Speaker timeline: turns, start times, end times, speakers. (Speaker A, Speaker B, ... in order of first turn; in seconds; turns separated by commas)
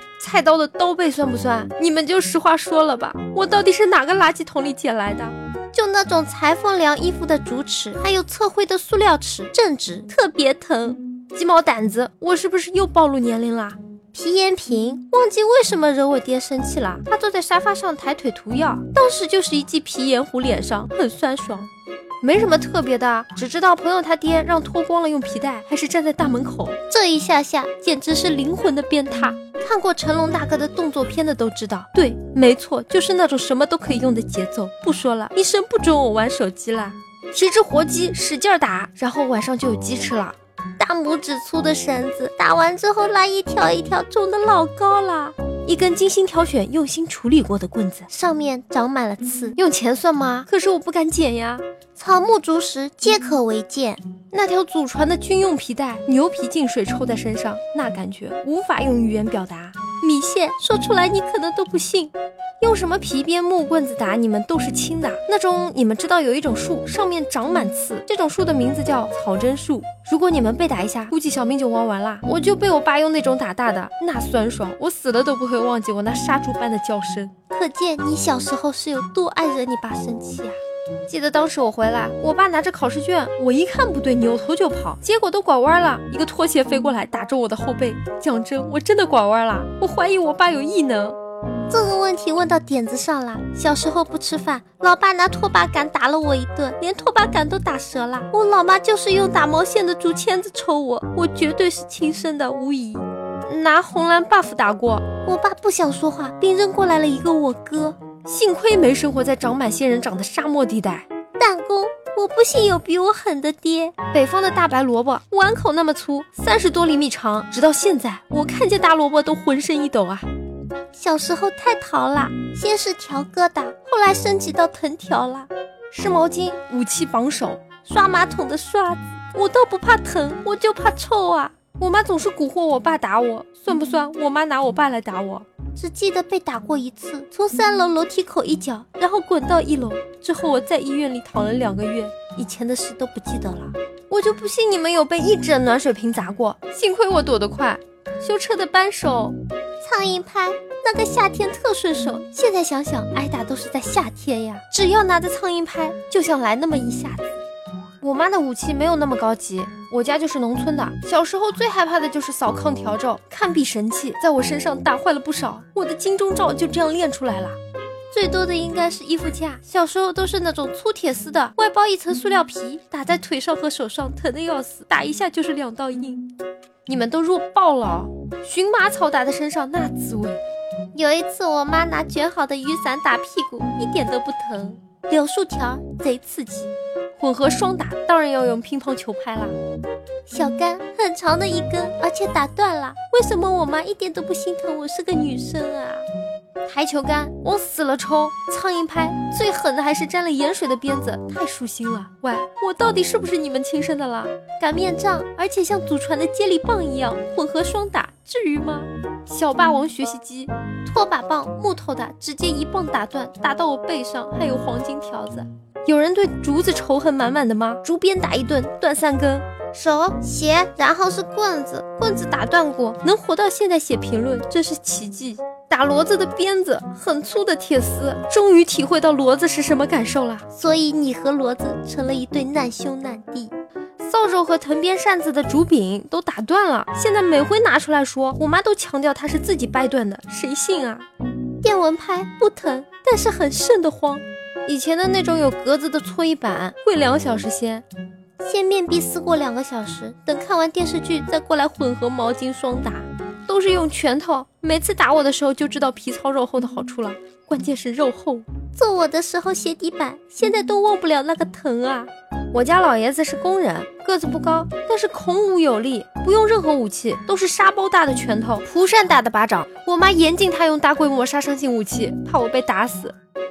Speaker A: 0.2-21.7, Speaker A: 22.2-91.2, Speaker A: 91.7-120.3, Speaker A: 120.9-157.4, Speaker A: 158.0-167.6, Speaker A: 168.1-176.3, Speaker A: 176.9-180.4, Speaker A: 180.9-189.6, Speaker A: 190.3-196.1, Speaker A: 196.7-241.1, Speaker A: 241.6-247.8, Speaker A: 248.4-273.1